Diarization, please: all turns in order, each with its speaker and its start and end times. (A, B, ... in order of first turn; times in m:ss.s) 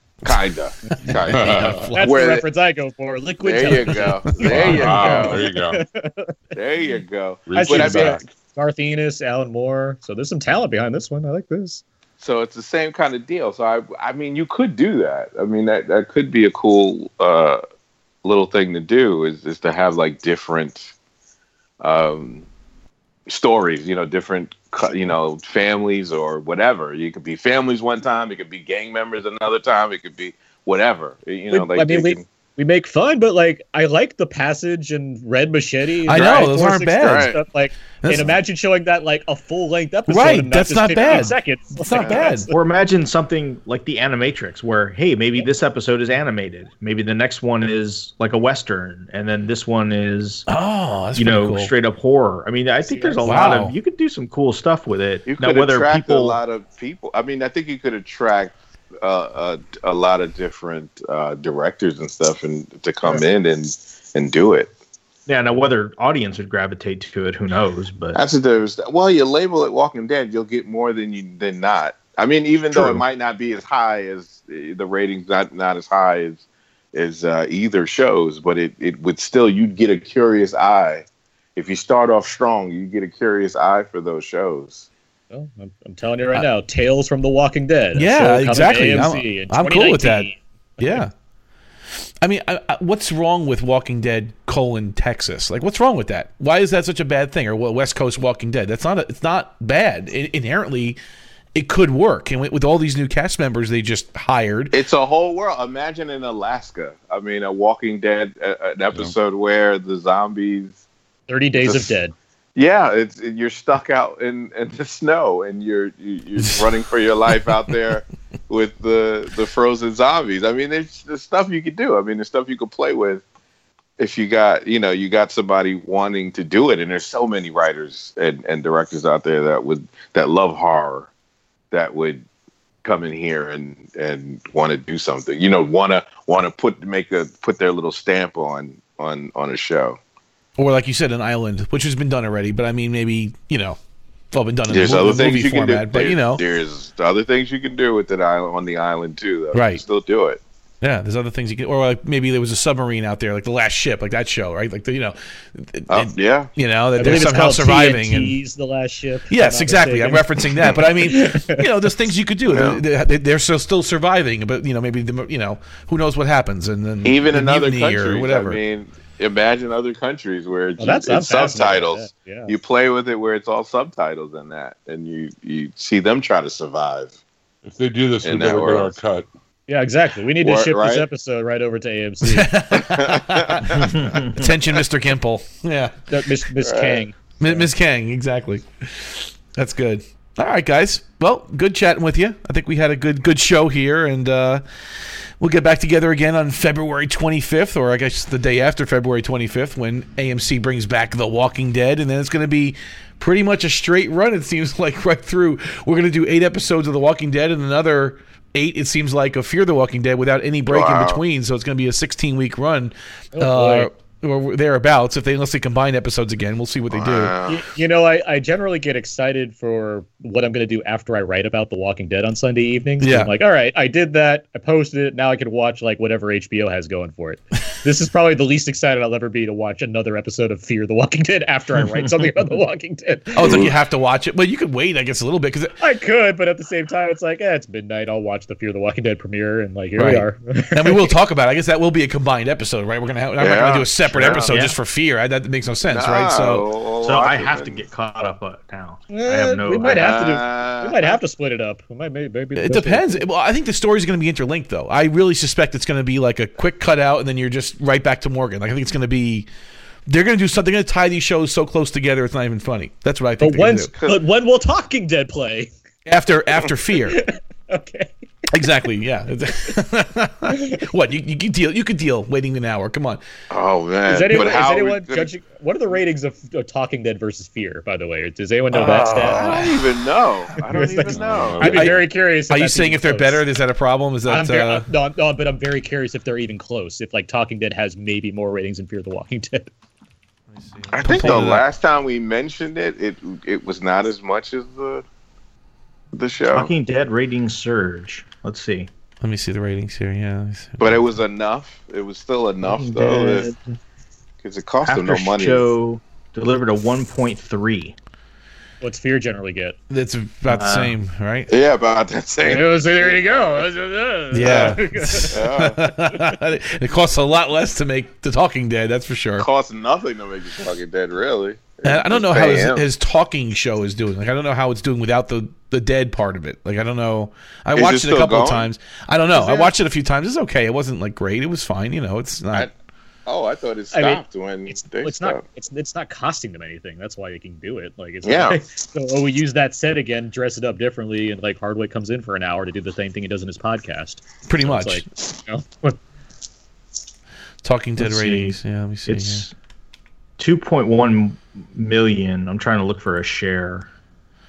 0:00.2-0:02.4 A
0:00.9-0:06.3 B
0:01.0-0:01.9 C
0:03.4-0:05.4 A
0:04.2-0:04.8 D
0:04.4-0:05.8 C
0:06.5-0:08.2 A
0:07.5-0:08.2 C
0:07.5-0:11.8 B
0:12.2-0:17.6 A
0:18.2-0:20.9 A
0:21.8-0:22.5 A
0:23.3-0:32.2 A
0:31.5-0:42.5 B
0:36.1-0:37.4 D
0:36.1-0:37.4 A
0:38.0-0:38.3 D
0:40.1-0:42.5 D
0:41.9-0:42.3 A
0:42.5-0:50.5 E
0:50.5-0:51.7 D
0:51.1-0:56.4 E
0:52.8-0:53.5 B
0:53.2-0:53.8 D
0:55.2-1:04.7 A
1:05.3-1:08.2 E
1:08.1-1:24.9 A
1:12.7-1:13.0 E
1:25.3-1:31.0 B
1:27.9-1:31.1 D
1:32.2-1:41.0 D
1:41.5-1:44.8 D
1:44.7-1:50.8 A
1:51.3-1:52.1 B
1:51.6-1:51.9 A
1:52.6-2:03.2 A
2:04.0-2:11.1 A
2:11.7-2:12.2 A
2:12.8-2:20.0 A
2:20.6-2:23.8 D
2:24.3-2:26.4 D
2:24.7-2:30.4 A
2:29.5-2:29.8 D
2:30.8-2:38.4 D
2:35.9-2:36.5 A
2:37.0-2:41.6 B
2:39.3-2:48.6 D
2:42.5-2:42.8 A
2:47.0-2:57.2 A
2:50.8-2:52.6 B
2:57.6-2:59.3 C
2:58.2-2:59.0 A
2:59.7-3:02.5 B
3:00.4-3:01.0 A
3:02.2-3:06.1 D
3:02.7-3:04.1 A
3:06.1-3:07.6 B
3:06.6-3:07.0 A
3:07.4-3:37.3 D
3:30.7-3:31.2 A
3:33.3-3:33.9 B
3:36.9-3:37.6 A
3:37.4-3:53.6 B
3:43.0-3:43.3 D
3:53.3-3:55.7 D
3:53.4-3:53.7 A
3:55.8-4:01.1 B
4:00.0-4:06.6 D
4:03.4-4:04.6 A
4:04.1-4:04.5 E
4:05.9-4:07.8 A
4:07.0-4:10.0 E
4:09.1-4:13.2 B
4:09.8-4:11.2 A
4:12.6-4:19.5 D
4:20.0-4:23.9 D
4:23.4-4:25.7 B
4:23.9-4:24.2 A
4:26.0-4:27.2 D
4:27.1-4:28.1 B
4:28.5-4:33.2 D
4:30.5-4:30.8 B
4:33.5-4:35.3 A
4:34.0-4:39.5 B
4:38.8-4:39.7 D
4:38.8-4:41.8 A
4:40.6-4:43.4 B
4:41.1-4:42.0 C
4:41.6-4:44.9 D
4:44.3-4:49.7 B
4:50.9-4:55.0 A
4:50.9-4:51.6 D
4:56.1-4:56.7 A
4:56.5-4:58.9 E
4:59.2-5:01.0 D
5:00.8-5:03.5 A
5:02.6-5:03.8 E
5:04.4-5:05.7 A
5:04.8-5:07.9 E
5:08.8-5:09.8 B
5:09.9-5:11.5 D
5:10.5-5:11.0 E
5:11.5-5:13.5 A
5:12.4-5:15.4 B
5:14.3-5:19.5 D
5:15.3-5:15.8 A
5:19.4-5:22.8 A
5:21.8-5:32.7 D
5:27.7-5:28.7 A
5:33.2-5:35.4 A
5:33.9-5:46.0 B
5:38.2-5:38.6 A
5:44.4-5:45.0 D
5:47.6-5:49.4 D
5:48.0-5:49.5 E
5:50.4-5:53.9 E